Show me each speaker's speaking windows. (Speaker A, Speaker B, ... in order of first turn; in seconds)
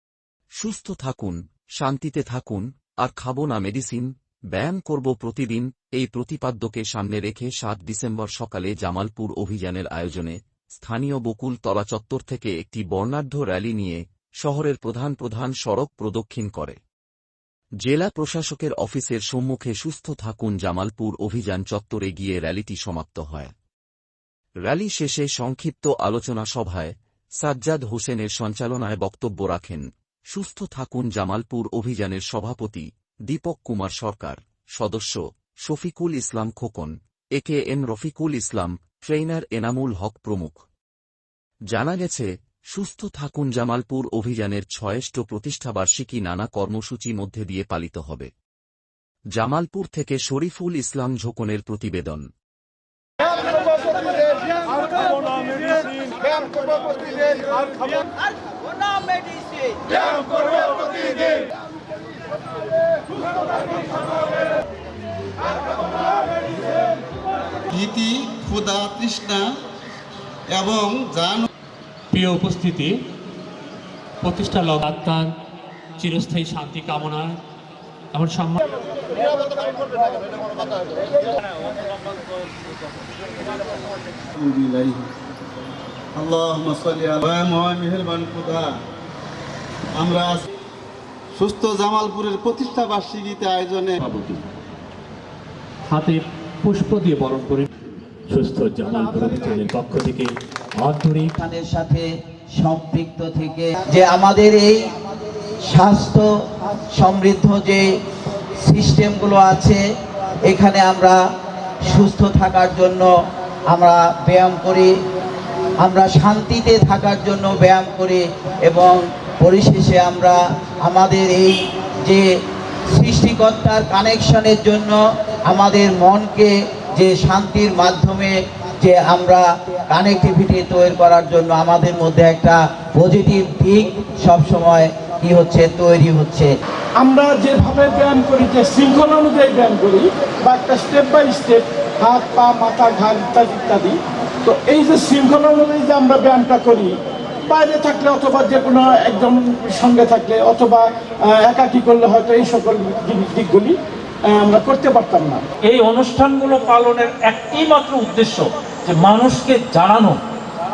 Speaker A: 0.6-16.8, 17.8-23.5, 24.7-40.6, 41.7-48.3, 49.4-52.2
Speaker B: 53.4-54.3, 54.9-57.7, 137.0-146.9, 147.5-153.8, 154.3-155.4
Speaker C: 58.5-60.0, 101.4-102.1, 102.6-104.9, 105.7-106.2, 107.0-107.8, 108.6-109.8, 110.5-111.2, 111.9-113.1, 113.7-114.9, 115.8-122.2, 123.0-125.0, 125.5-136.5
Speaker D: 67.7-69.5, 70.5-71.5, 84.3-85.1, 86.2-88.7, 90.0-90.5, 91.3-94.0
Speaker E: 72.1-72.9, 74.2-75.3, 76.0-77.4, 78.1-78.6, 94.0-94.4, 95.9-97.7, 98.3-101.3
Speaker F: 155.7-160.2